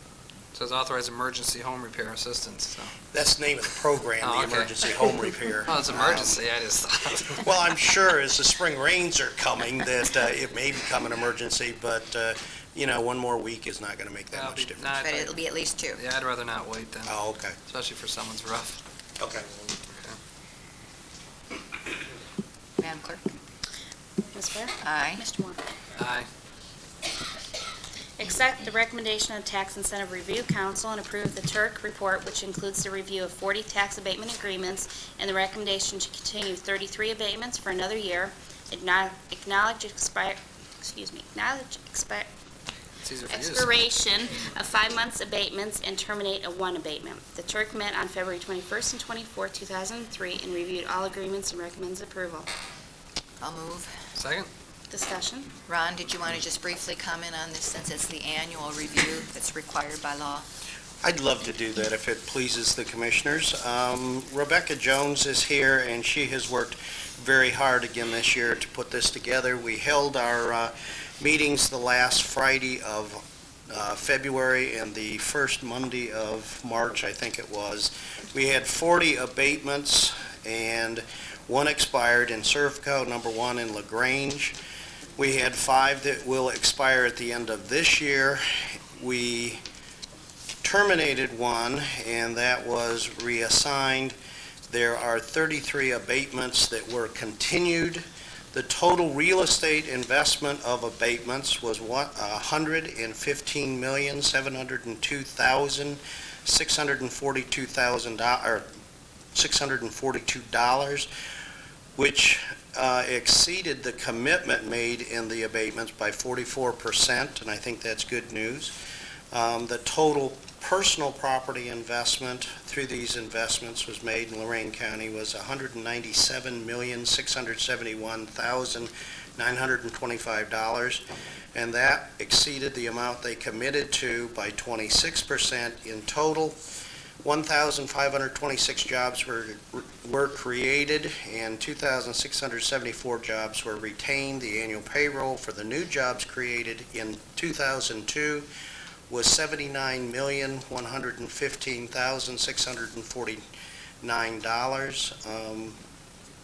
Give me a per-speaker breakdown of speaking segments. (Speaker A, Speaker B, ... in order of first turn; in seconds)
Speaker A: 0.5-3.0, 4.2-5.0, 5.7-7.5, 14.3-15.4, 15.9-18.8, 19.8-20.2, 26.0-26.3, 43.0-43.8, 54.2-54.5
Speaker B: 3.1-6.4, 7.4-14.9, 17.1-17.6, 19.2-19.5, 61.0-84.6, 85.2-89.6, 90.6-94.2, 94.7-108.7, 109.3-111.1, 112.0-118.7, 119.3-136.6, 137.2-148.5, 149.1-153.4, 154.0-155.8
Speaker C: 15.0-16.0, 22.8-23.3, 24.8-25.2, 53.4-53.9, 55.7-60.5
Speaker D: 24.3-25.6, 28.2-42.3, 43.3-52.5, 54.9-55.5